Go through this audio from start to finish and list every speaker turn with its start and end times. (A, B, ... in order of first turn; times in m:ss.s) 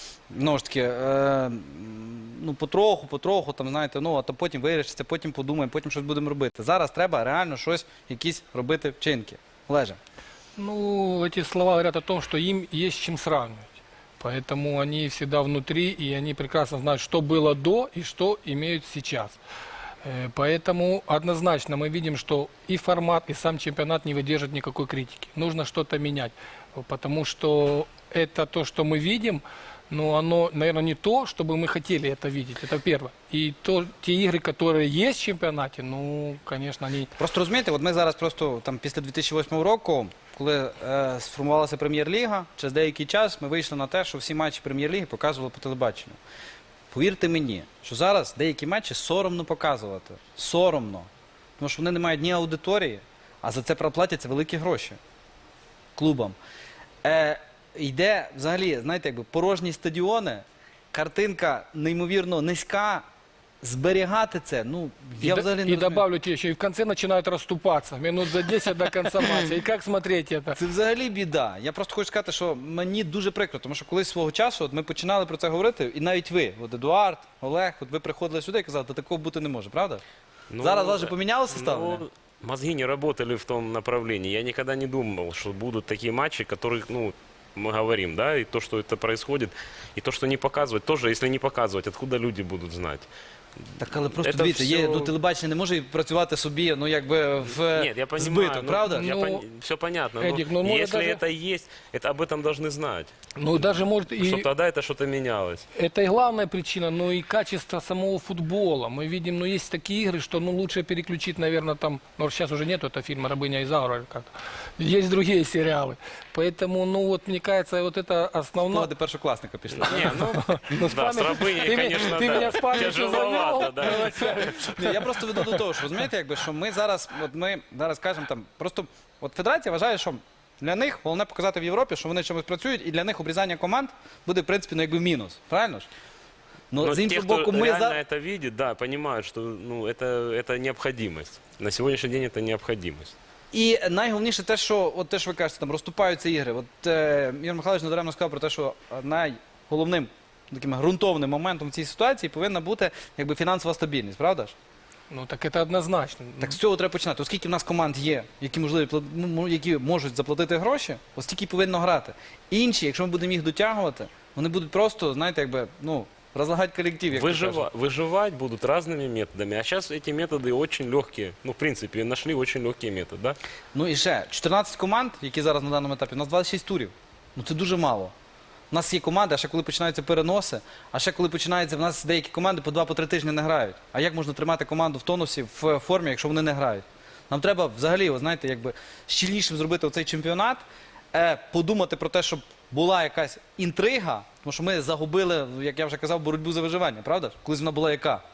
0:00.3-0:10.0 A
0:10.6-0:13.7 B
0:14.2-0:19.4 B
0:20.0-0:37.1 B
0:37.2-0:46.2 A
0:46.9-0:55.0 A
0:56.0-0:56.4 A
0:57.0-1:03.1 A
1:03.6-1:06.0 A
1:05.2-1:10.6 B
1:10.6-1:20.0 A
1:20.5-1:33.1 C
1:20.6-1:22.0 A
1:33.8-1:39.0 A
1:34.1-1:35.1 C
1:37.7-1:45.6 C
1:39.0-1:39.4 B
1:40.2-1:41.2 B
1:43.4-1:44.5 B
1:45.7-1:54.3 B
1:54.8-1:58.9 B
1:58.6-2:00.2 A
1:59.7-2:04.1 C
2:00.0-2:04.9 B
2:03.8-2:15.9 A
2:16.7-2:18.0 A
2:16.8-2:23.1 C
2:23.5-2:34.6 A
2:35.1-2:36.5 B
2:36.4-2:47.6 A
2:47.1-2:53.4 C
2:53.7-2:58.1 A
2:58.7-3:18.2 A